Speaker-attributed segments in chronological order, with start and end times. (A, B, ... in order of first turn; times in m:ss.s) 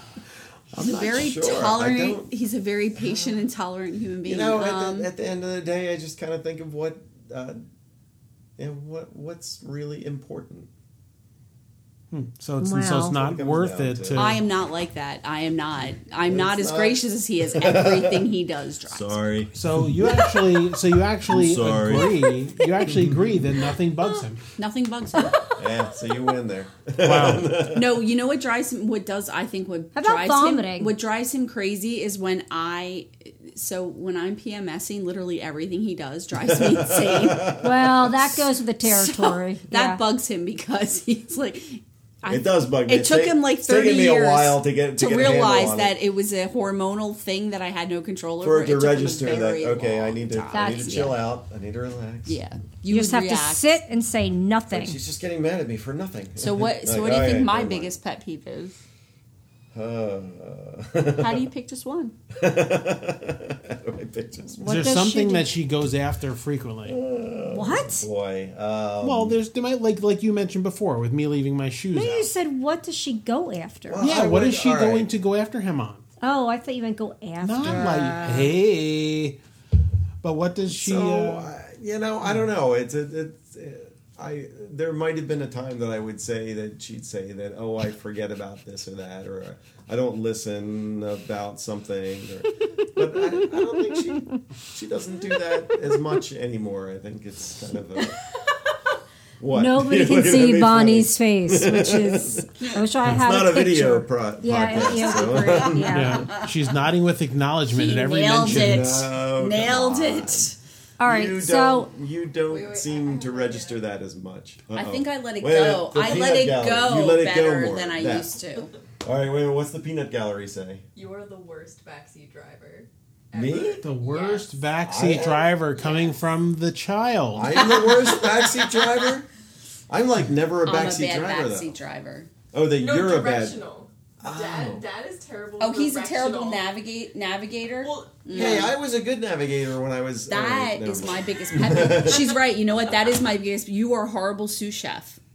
0:00.7-0:02.3 A
0:00.8-0:05.1 B
0:04.2-0:07.6 A
0:08.6-0:10.7 A
0:12.1-0:14.4 C
0:12.6-0:13.2 D
0:13.1-0:14.4 A
0:14.2-0:19.2 B
0:16.3-0:17.0 A
0:17.5-0:18.3 A
0:18.9-0:20.3 A
0:19.5-0:24.4 C
0:21.3-0:22.2 A
0:22.9-0:23.4 A
0:24.6-0:25.4 B
0:25.2-0:25.6 D
0:25.6-0:28.0 A
0:27.0-0:27.5 C
0:27.7-0:37.5 B
0:30.0-0:30.9 D
0:36.4-0:38.4 A
0:37.6-0:40.0 D
0:38.8-0:51.2 B
0:42.3-0:45.9 A
0:48.4-0:52.4 A
0:50.5-0:51.2 D
0:52.3-0:53.8 B
0:52.9-0:55.0 D
0:54.7-0:58.0 A
0:56.4-0:58.8 B
0:59.7-1:01.5 A
1:01.2-1:02.1 B
1:02.4-1:04.9 A
1:04.6-1:05.5 D
1:04.6-1:07.0 C
1:06.9-1:09.4 A
1:07.5-1:08.0 D
1:09.0-1:12.3 C
1:11.9-1:14.1 D
1:13.9-1:15.1 A
1:14.0-1:16.0 C
1:16.2-1:18.2 D
1:17.4-1:19.4 C
1:20.2-1:21.5 C
1:20.7-1:38.2 A
1:33.5-1:34.4 D
1:39.4-1:46.2 A
1:39.5-1:46.3 D
1:45.9-1:49.0 C
1:46.3-1:46.6 B
1:47.7-1:50.6 B
1:48.4-1:50.5 A
1:51.0-1:51.9 D
1:51.0-1:58.3 A
1:52.5-1:53.8 E
1:54.7-1:58.7 B
1:59.0-2:00.8 A
2:01.0-2:04.5 E
2:03.3-2:03.8 A
2:03.8-2:07.6 C
2:04.8-2:05.5 A
2:07.3-2:09.3 A
2:07.8-2:08.3 B
2:09.9-2:11.8 A
2:10.7-2:12.3 B
2:12.5-2:13.6 A
2:12.8-2:16.7 E
2:14.2-2:14.8 A
2:15.6-2:18.7 B
2:17.8-2:18.7 E
2:18.3-2:22.3 A
2:20.3-2:25.2 B